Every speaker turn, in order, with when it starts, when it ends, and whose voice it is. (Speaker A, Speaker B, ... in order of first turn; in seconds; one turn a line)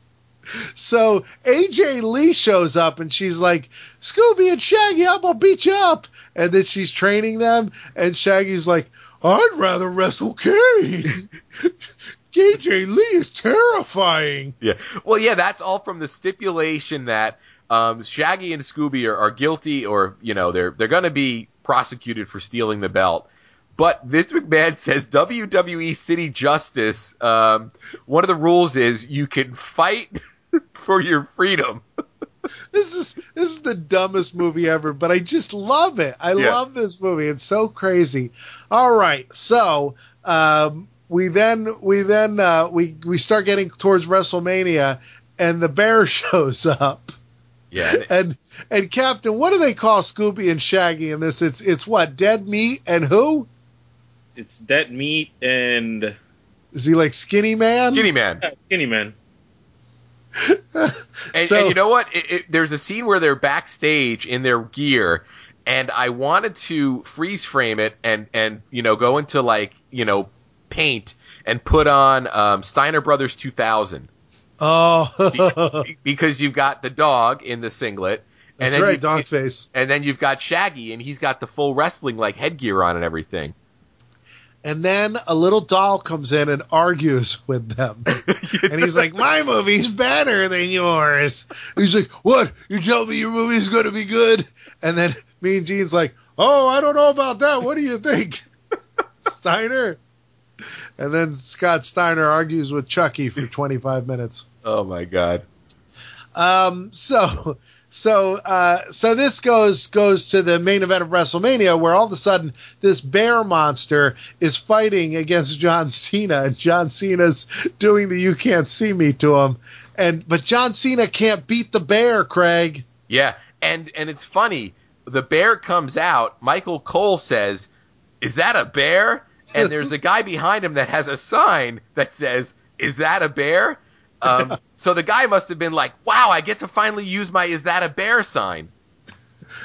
Speaker A: 0.5-11.7
Speaker A: 12.3-14.5
Speaker B: 14.6-30.2
Speaker B: 30.7-31.8
Speaker A: 32.7-47.1
Speaker B: 47.7-48.1
Speaker A: 47.8-53.5
Speaker C: 54.4-56.1
Speaker A: 56.7-58.1
Speaker B: 57.9-58.4
Speaker C: 58.4-59.1
Speaker A: 60.4-61.8
Speaker B: 61.3-74.1
Speaker A: 74.6-75.8
Speaker B: 75.3-83.5
Speaker A: 78.6-79.7
Speaker A: 84.6-98.5
Speaker B: 88.2-89.1
Speaker A: 99.2-100.0
Speaker A: 101.0-104.4
Speaker B: 104.6-105.4
Speaker A: 106.3-122.8
Speaker B: 123.1-127.7
Speaker B: 128.2-138.7